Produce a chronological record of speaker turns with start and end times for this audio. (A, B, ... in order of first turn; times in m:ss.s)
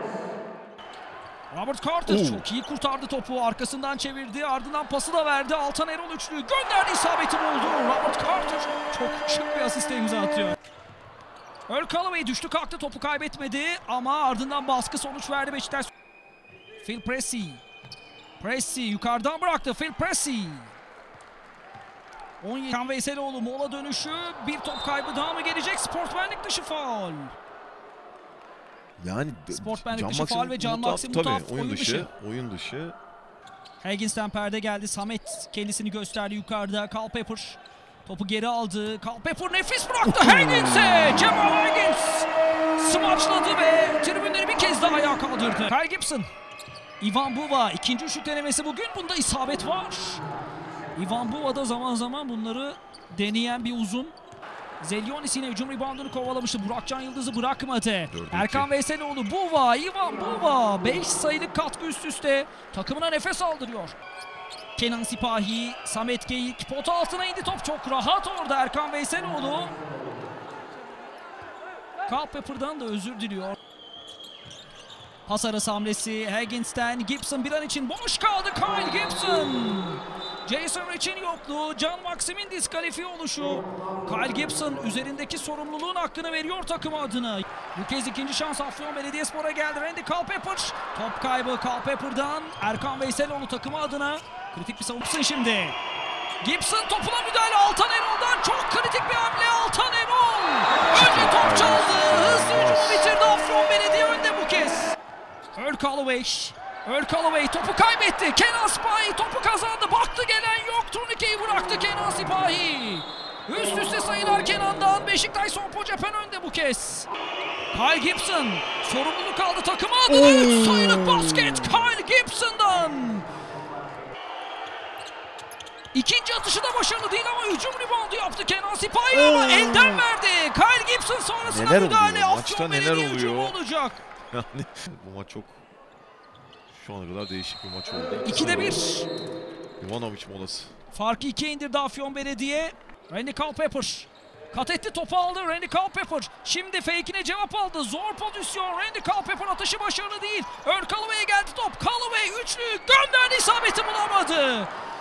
0:01.5-0:10.6 A
0:02.1-0:02.4 B
0:11.7-0:15.9 A
0:16.8-0:17.6 A
0:18.4-0:20.7 A
0:22.4-0:27.3 A
0:29.0-0:33.0 B
0:29.5-0:32.1 A
0:33.8-0:46.3 A
0:40.0-0:41.3 B
0:47.0-0:50.2 A
0:50.9-0:54.1 A
0:54.8-1:04.0 A
0:58.1-0:58.7 B
1:04.8-1:09.7 A
1:12.1-1:13.6 A
1:15.2-1:35.8 A
1:36.4-1:44.9 A
1:40.9-1:43.1 B
1:45.6-1:57.1 A
1:57.7-2:03.2 A
2:05.9-2:14.0 A
2:11.4-2:13.6 B
2:14.3-2:15.6 B
2:16.7-2:18.8 B
2:18.2-2:19.1 A
2:19.8-2:20.7 B
2:20.9-2:34.7 A